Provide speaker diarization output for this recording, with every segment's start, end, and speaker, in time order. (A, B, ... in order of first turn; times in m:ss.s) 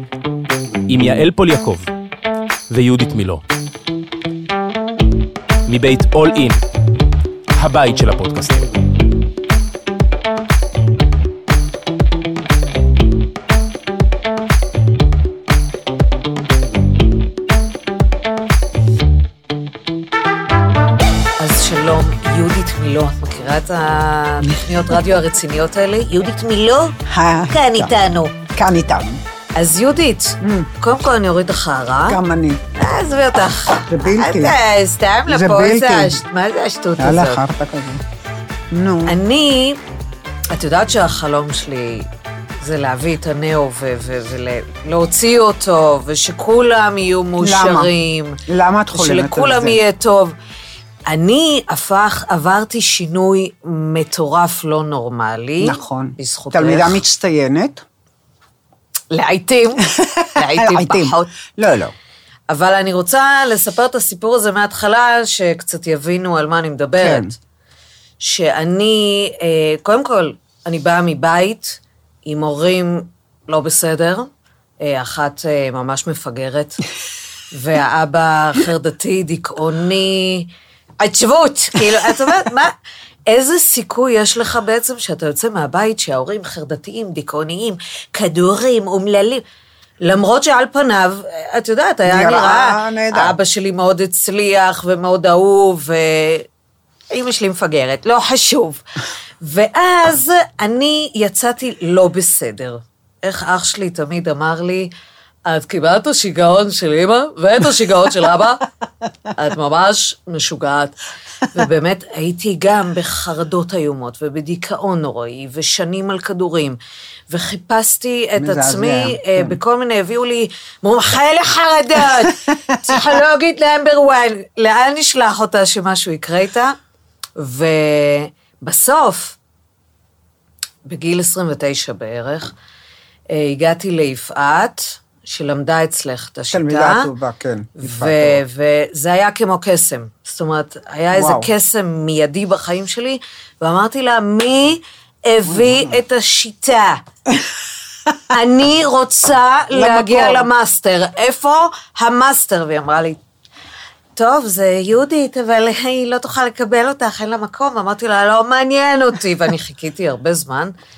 0:00.9-0:01.9 A
0:02.7-0:03.4 A
0:05.7-0:06.6 A
0:07.6-0:08.8 A
0:21.4-0:28.4 B
0:24.4-0:25.0 C
0:27.1-0:29.2 C
0:29.6-0:32.2 B
0:30.4-0:30.7 C
0:32.1-0:32.6 C
0:32.8-0:37.4 B
0:33.9-0:34.6 C
0:35.3-0:36.2 C
0:37.0-0:38.0 C
0:38.7-0:39.2 C
0:39.1-0:39.8 B
0:40.5-0:42.1 B
0:42.6-0:48.4 B
0:47.4-0:47.9 C
0:48.5-0:49.8 C
0:48.9-0:50.4 B
0:51.1-0:57.0 B
0:55.6-0:57.8 C
0:59.1-1:01.4 B
0:59.8-1:02.0 C
1:02.5-1:07.4 B
1:07.0-1:07.3 C
1:08.2-1:16.8 B
1:17.5-1:22.8 B
1:23.3-1:29.4 B
1:30.0-1:36.5 B
1:32.1-1:33.4 C
1:37.1-1:38.8 B
1:39.4-1:44.9 B
1:45.5-1:48.6 B
1:49.4-1:56.8 B
1:57.3-2:06.8 B
1:58.4-1:59.6 C
2:02.0-2:03.0 C
2:07.4-2:09.4 B
2:10.8-2:12.5 B
2:13.3-2:17.1 B
2:16.5-2:18.4 C
2:17.8-2:27.0 B
2:21.1-2:21.5 C
2:25.4-2:26.0 C
2:28.3-2:33.2 B
2:29.7-2:30.5 C
2:34.2-2:40.7 B